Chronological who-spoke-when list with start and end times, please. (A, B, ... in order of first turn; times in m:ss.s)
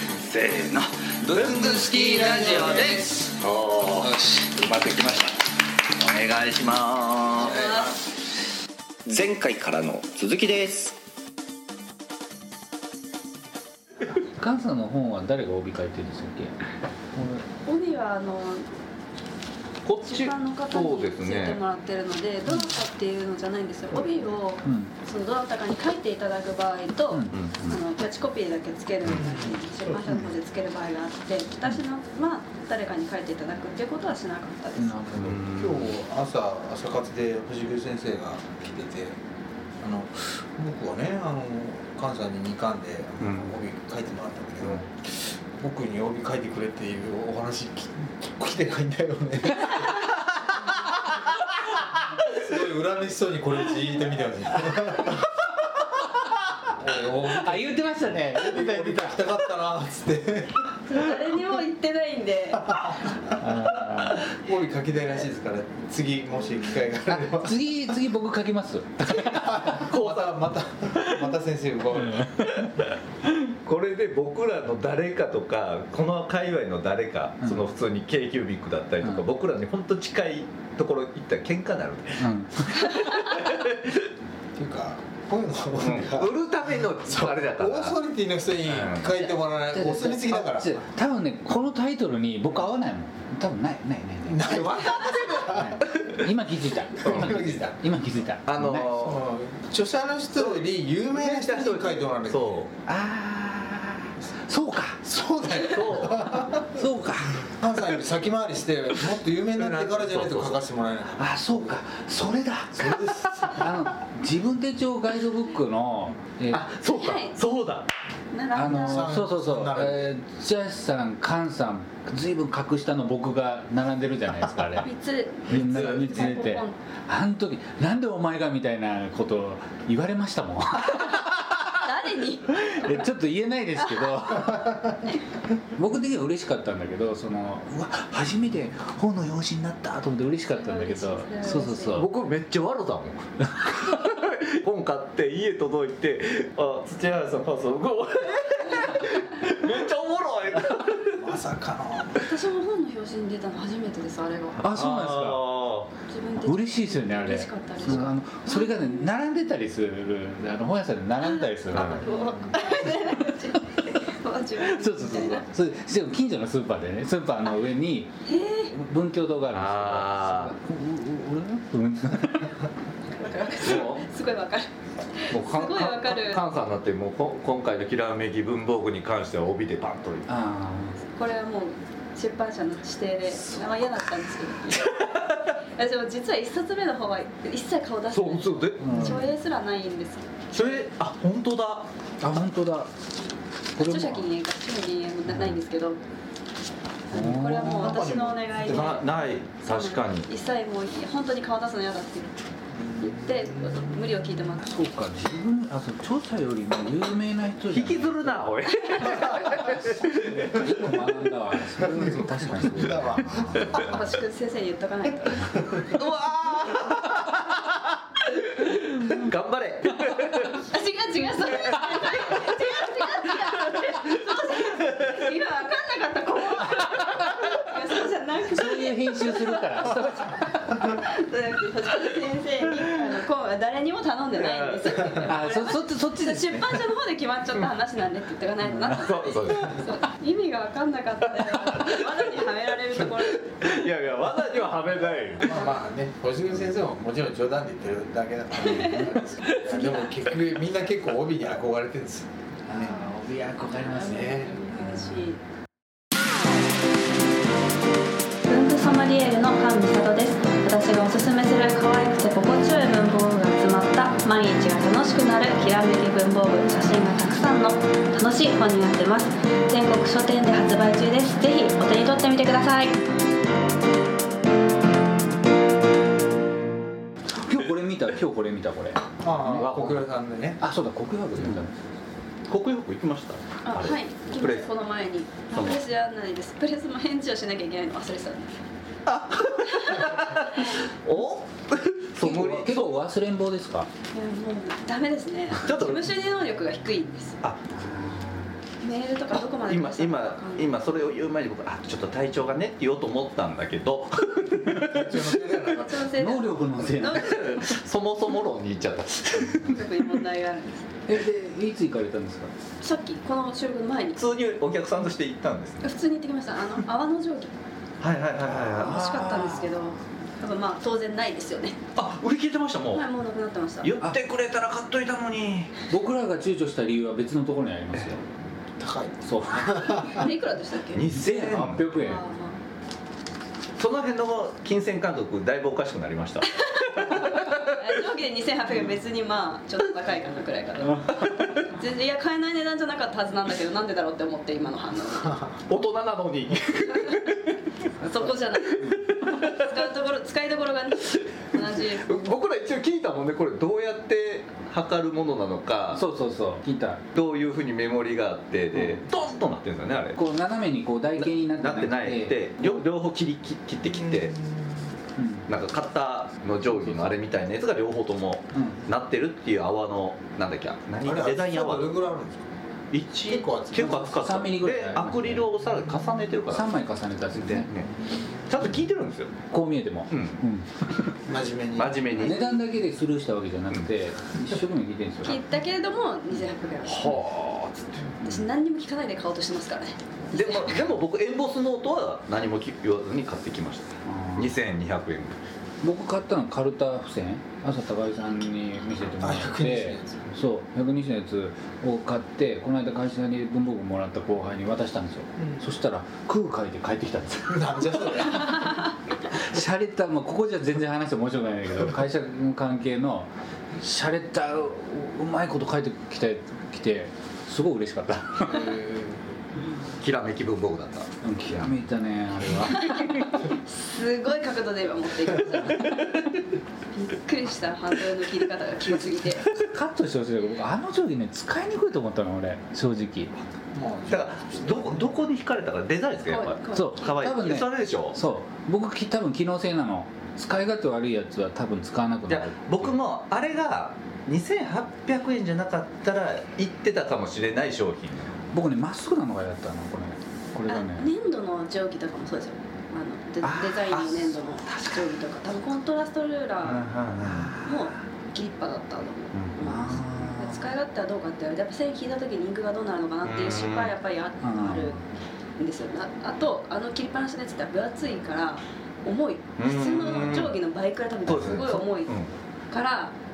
0:00.2-0:05.3 A
0:01.3-0:03.0 B
0:01.6-0:03.3 C
0:06.1-0:07.7 A
0:07.4-0:07.9 D
0:09.1-0:10.9 C
0:09.1-0:09.9 A
0:14.4-0:16.6 B
0:17.1-0:17.4 B
0:17.6-0:18.7 D
0:19.8-0:21.6 A
0:20.0-0:35.1 D
0:24.6-0:24.9 B
0:27.1-0:27.8 B
0:27.3-0:27.6 A
0:29.2-0:30.1 E
0:34.8-0:35.5 B
0:35.2-0:36.0 A
0:35.5-0:39.2 E
0:39.8-0:50.8 E
0:43.2-0:43.6 A
0:52.2-0:55.2 E
0:56.8-0:57.8 E
0:57.2-0:59.2 B
0:58.3-1:00.6 E
1:00.9-1:03.1 D
1:03.4-1:04.3 B
1:04.3-1:07.9 E
1:07.1-1:09.6 B
1:09.3-1:12.3 E
1:09.7-1:11.4 A
1:12.4-1:24.1 A
1:22.2-1:22.7 B
1:24.6-1:30.8 E
1:25.8-1:28.0 A
1:28.7-1:29.1 A
1:29.7-1:38.9 B
1:34.3-1:36.1 E
1:37.0-1:37.8 E
1:37.0-1:37.3 A
1:38.5-1:39.2 A
1:39.0-1:42.7 E
1:40.4-1:42.7 A
1:42.9-1:45.0 B
1:45.0-1:46.8 E
1:45.7-1:46.3 A
1:46.6-1:47.5 B
1:47.4-1:51.7 E
1:49.6-1:50.6 A
1:51.2-1:56.6 B
1:52.8-1:53.5 E
1:56.5-1:57.9 A
1:56.9-1:57.4 D
1:58.3-1:59.1 D
1:58.5-2:04.9 B
1:58.8-2:00.1 E
2:04.8-2:06.8 D
2:05.5-2:11.3 B
2:05.6-2:06.4 A
2:11.8-2:13.0 D
2:12.6-2:15.0 B
2:15.8-2:22.1 B
2:20.6-2:22.1 D
2:22.0-2:31.2 A
2:31.2-2:32.3 E
2:32.2-2:34.6 D
2:34.6-2:35.5 B
2:34.7-2:35.9 A
2:36.1-2:38.8 D
2:36.4-2:42.1 B
2:41.7-2:42.0 A
2:41.8-2:45.5 D
2:42.3-2:42.5 E
2:44.6-2:48.1 B
2:48.2-2:48.7 D
2:48.7-2:52.6 B
2:49.5-2:50.6 A
2:53.1-2:56.4 D
2:53.6-2:54.0 A
2:55.3-3:00.3 A
3:00.3-3:01.0 B
3:01.2-3:10.8 D
3:08.1-3:09.1 A
3:08.8-3:09.3 B
3:10.5-3:11.9 A
3:12.2-3:12.9 B
3:13.8-3:14.2 B
3:13.8-3:16.0 D
3:15.3-3:15.6 B
3:17.1-3:22.4 D
3:17.1-3:17.8 B
3:17.2-3:18.8 E
3:18.6-3:20.3 A
3:22.7-3:24.0 E
3:23.0-3:24.8 D
3:24.6-3:28.5 B
3:27.7-3:30.6 A
3:29.6-3:33.7 B
3:31.8-3:33.8 E
3:33.7-3:35.8 D
3:35.8-3:40.7 A
3:40.7-4:03.6 D
3:41.8-3:42.4 A
3:44.6-3:45.2 A
3:48.5-3:50.7 B
3:54.4-3:55.3 A
3:55.3-3:56.8 B
3:58.7-3:58.9 B
3:58.9-3:59.8 A
4:01.4-4:02.0 A
4:03.0-4:05.6 A
4:05.4-4:13.0 E
4:08.6-4:10.1 D
4:12.7-4:15.2 B
4:13.6-4:15.4 D
4:14.1-4:14.5 E
4:18.4-4:33.0 D
4:37.4-4:40.0 B
4:39.2-4:40.6 E
4:40.6-4:41.8 B
4:41.4-4:41.6 A
4:42.5-4:44.7 A
4:43.6-4:48.6 D
4:45.5-4:45.8 A
4:49.1-4:53.0 A
4:49.7-4:50.7 D
4:52.2-4:53.9 B
4:54.1-4:57.4 D
4:55.6-4:56.1 A
4:57.4-4:57.7 A
4:57.7-4:58.6 B
4:58.8-5:00.8 D
4:59.3-5:05.4 A
5:04.7-5:06.1 E
5:05.9-5:07.6 D
5:06.1-5:07.4 B
5:07.1-5:09.9 A
5:09.6-5:10.9 D
5:11.1-5:12.5 B
5:12.8-5:14.2 D
5:14.2-5:15.8 A
5:15.8-5:17.5 D
5:18.0-5:19.1 A
5:18.6-5:20.0 B
5:18.7-5:21.8 D
5:22.0-5:23.0 A
5:22.9-5:23.9 D
5:23.8-5:25.9 A
5:25.9-5:28.2 B
5:28.8-5:30.2 E
5:29.2-5:30.1 B
5:29.8-5:31.1 D
5:30.9-5:31.9 A
5:31.1-5:32.2 B
5:31.9-5:32.6 D
5:33.8-5:37.9 A
5:36.8-5:45.6 D
5:45.7-5:47.6 A
5:47.0-5:47.3 D
5:48.0-5:52.1 D
5:49.1-5:49.8 A
5:51.4-5:56.0 A
5:55.9-5:57.0 B
5:57.1-6:00.2 A
5:58.7-5:59.0 B
6:00.2-6:02.8 B
6:01.2-6:04.4 A
6:03.8-6:04.8 E
6:05.2-6:05.5 B
6:05.5-6:11.9 A
6:06.7-6:07.2 B
6:08.5-6:08.8 B
6:11.0-6:12.5 E
6:12.9-6:16.7 A
6:13.3-6:14.2 E
6:13.8-6:15.5 B
6:16.5-6:17.7 B
6:17.3-6:17.9 A
6:18.1-6:18.4 E
6:18.5-6:19.4 A
6:19.5-6:20.7 B
6:20.1-6:20.4 A
6:21.2-6:22.3 E
6:21.8-6:22.6 A
6:22.1-6:25.4 B
6:25.2-6:27.2 D
6:26.8-6:28.1 A
6:28.2-6:30.7 D
6:30.3-6:35.4 A
6:34.1-6:34.5 B
6:35.8-6:47.6 B
6:39.2-6:40.2 E
6:45.4-6:45.6 E
6:47.5-6:48.6 E
6:48.3-6:58.7 B
6:58.5-6:59.4 E
7:00.0-7:01.7 A
7:01.2-7:03.5 B
7:02.6-7:06.2 D
7:06.9-7:09.5 D
7:09.6-7:13.3 B
7:13.7-7:15.2 E
7:14.1-7:18.2 A
7:16.3-7:17.1 D
7:16.7-7:23.0 B
7:22.3-7:28.4 A
7:28.5-7:31.1 B
7:30.7-7:45.0 D
7:33.4-7:33.9 B
7:33.9-7:34.9 A
7:36.6-7:37.5 A
7:37.3-7:37.9 B
7:39.6-7:40.7 B
7:43.2-7:43.9 A
7:44.4-7:45.0 B
7:45.6-7:52.1 D
7:49.6-7:50.6 A
7:51.3-7:52.3 A
7:52.7-7:53.2 D